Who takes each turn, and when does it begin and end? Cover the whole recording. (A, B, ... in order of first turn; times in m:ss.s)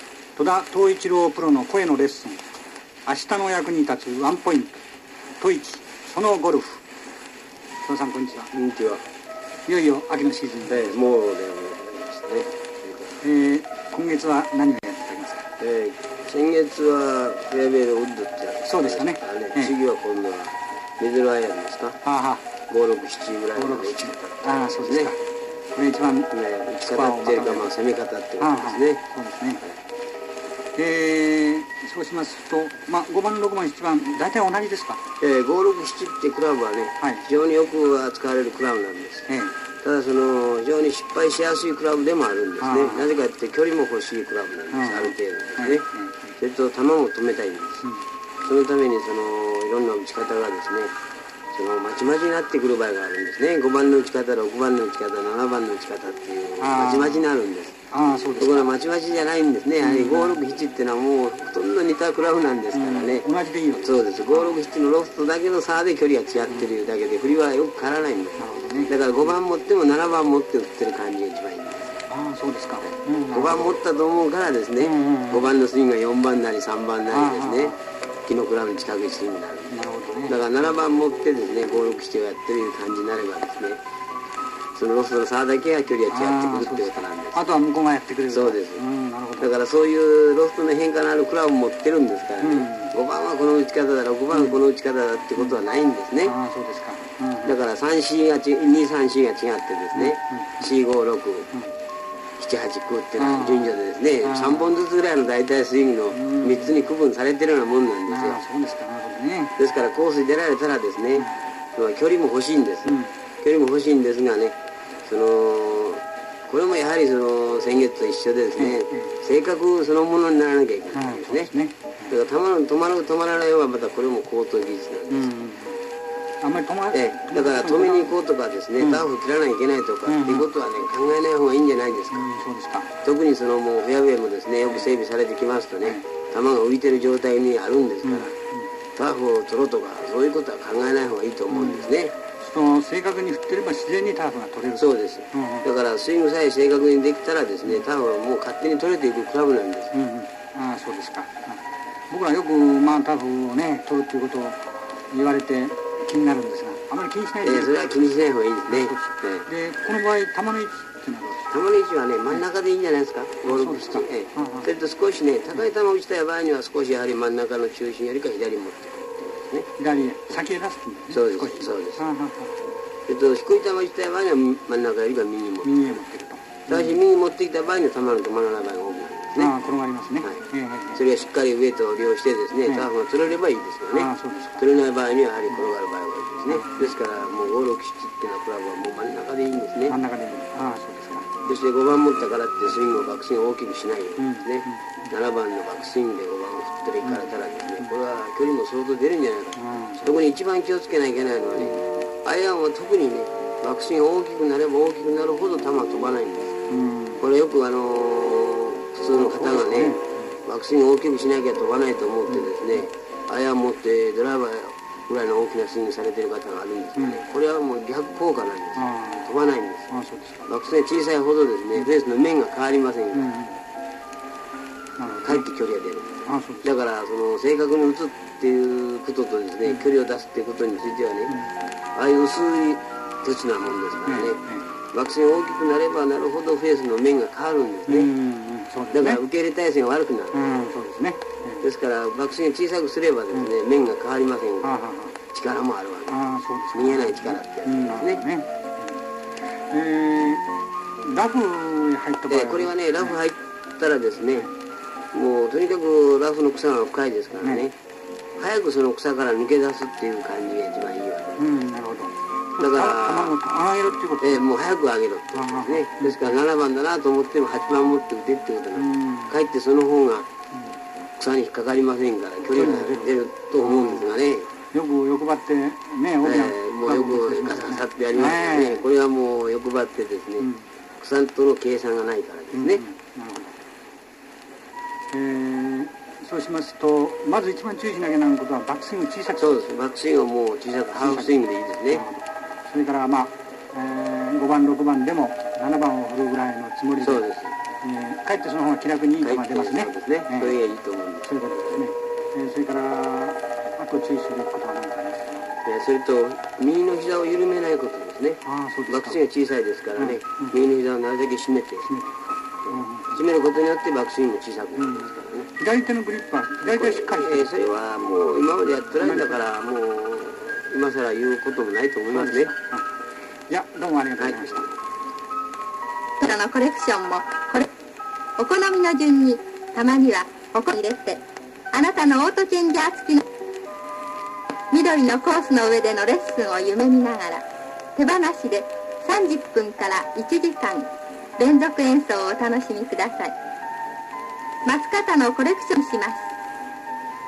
0:00.4-0:02.4 A
0:03.0-0:04.8 A
0:05.4-0:06.8 A
0:07.8-0:08.5 A
0:08.5-0:09.0 B
0:09.7-0:11.0 A
0:10.7-0:13.2 B
0:13.2-0:15.4 A
0:15.6-0:22.0 B
0:18.6-0:19.7 A
0:22.0-0:22.4 A
0:22.7-0:25.1 B
0:23.6-0:25.2 A
0:25.7-0:27.7 A
0:26.3-0:29.0 B
0:28.4-0:29.6 A
0:30.8-0:35.0 A
0:35.2-0:39.3 B
0:37.0-0:37.3 A
0:39.3-0:39.6 A
0:39.8-0:45.9 B
0:42.6-0:43.1 A
0:44.7-0:46.3 A
0:46.4-0:47.8 B
0:48.4-0:51.0 B
0:51.5-1:03.3 B
0:56.6-0:57.3 A
0:57.9-0:58.7 A
0:59.8-1:00.4 A
1:02.7-1:04.6 A
1:03.8-1:11.9 B
1:08.4-1:09.0 A
1:12.1-1:13.7 A
1:13.3-1:17.8 B
1:14.8-1:15.5 A
1:17.1-1:17.8 A
1:18.3-1:19.7 B
1:19.7-1:20.7 A
1:20.3-1:23.8 B
1:24.8-1:27.4 B
1:26.1-1:29.5 A
1:28.3-1:28.8 B
1:29.4-1:36.4 B
1:32.4-1:32.9 A
1:34.3-1:34.6 A
1:36.2-1:37.6 A
1:37.4-1:41.5 B
1:40.0-1:40.7 A
1:42.4-1:48.4 B
1:43.2-1:44.8 A
1:46.1-1:46.9 A
1:48.1-1:49.6 A
1:49.6-2:01.5 B
1:52.8-1:53.1 A
1:58.6-1:59.1 A
2:00.9-2:02.1 A
2:02.1-2:05.3 B
2:05.1-2:05.8 A
2:06.4-2:08.2 A
2:06.9-2:12.3 B
2:08.8-2:09.1 A
2:10.1-2:10.5 A
2:12.1-2:13.0 A
2:13.0-2:18.3 B
2:14.7-2:15.0 A
2:18.0-2:18.7 A
2:19.0-2:22.1 B
2:21.5-2:25.7 A
2:24.8-2:29.9 B
2:29.9-2:37.9 A
2:37.4-2:39.5 B
2:38.7-2:41.5 A
2:41.5-2:49.7 B
2:43.4-2:44.7 A
2:49.8-2:52.6 A
2:51.1-2:52.0 B
2:53.1-2:56.0 B
2:55.6-2:57.0 A
2:56.7-2:59.5 B
2:59.4-3:01.0 A
3:00.9-3:10.0 B
3:03.9-3:04.7 A
3:06.5-3:06.9 A
3:09.9-3:11.6 A
3:11.4-3:26.6 B
3:14.2-3:14.8 A
3:19.6-3:20.2 A
3:21.6-3:21.9 A
3:26.7-3:27.2 A
3:27.2-3:39.9 B
3:29.1-3:30.4 A
3:38.8-3:39.3 A
3:39.9-3:40.5 A
3:40.5-3:43.4 B
3:43.1-3:43.6 A
3:45.0-3:45.4 A
3:45.2-3:51.4 B
3:46.3-3:46.7 A
3:52.0-3:54.4 B
3:54.1-3:54.7 A
3:54.9-3:58.1 B
3:57.9-3:59.2 A
3:58.9-4:00.4 B
4:00.3-4:01.6 A
4:01.6-4:04.7 B
4:04.6-4:05.2 A
4:05.3-4:06.2 B
4:06.1-4:09.0 A
4:06.7-4:08.2 B
4:09.6-4:10.4 A
4:11.0-4:13.2 A
4:12.3-4:14.5 B
4:15.1-4:17.7 B
4:18.4-4:21.4 B
4:21.4-4:24.4 A
4:22.6-4:23.4 B
4:24.2-4:30.3 B
4:25.4-4:26.4 A
4:28.8-4:29.4 A
4:31.2-4:34.5 B
4:32.5-4:34.2 A
4:34.7-4:38.9 A
4:36.2-4:42.8 B
4:40.4-4:40.6 A
4:42.5-4:43.5 A
4:45.1-4:49.6 A
4:49.4-4:52.0 B
4:51.0-4:51.4 A
4:51.9-4:57.2 A
4:57.0-4:57.5 B
4:57.8-5:00.6 A
4:59.2-5:01.8 B
5:01.2-5:05.5 A
5:05.6-5:11.9 B
5:08.4-5:09.2 A
5:10.0-5:10.6 A
5:11.9-5:13.2 A
5:12.7-5:15.5 B
5:14.8-5:17.5 A
5:16.6-5:22.5 B
5:19.0-5:19.4 A
5:22.1-5:22.9 A
5:23.5-5:24.7 A
5:24.2-5:24.6 B
5:26.2-5:27.7 C
5:28.4-5:33.3 C
5:34.7-5:37.4 C
5:38.0-5:43.4 C
5:44.7-5:46.3 C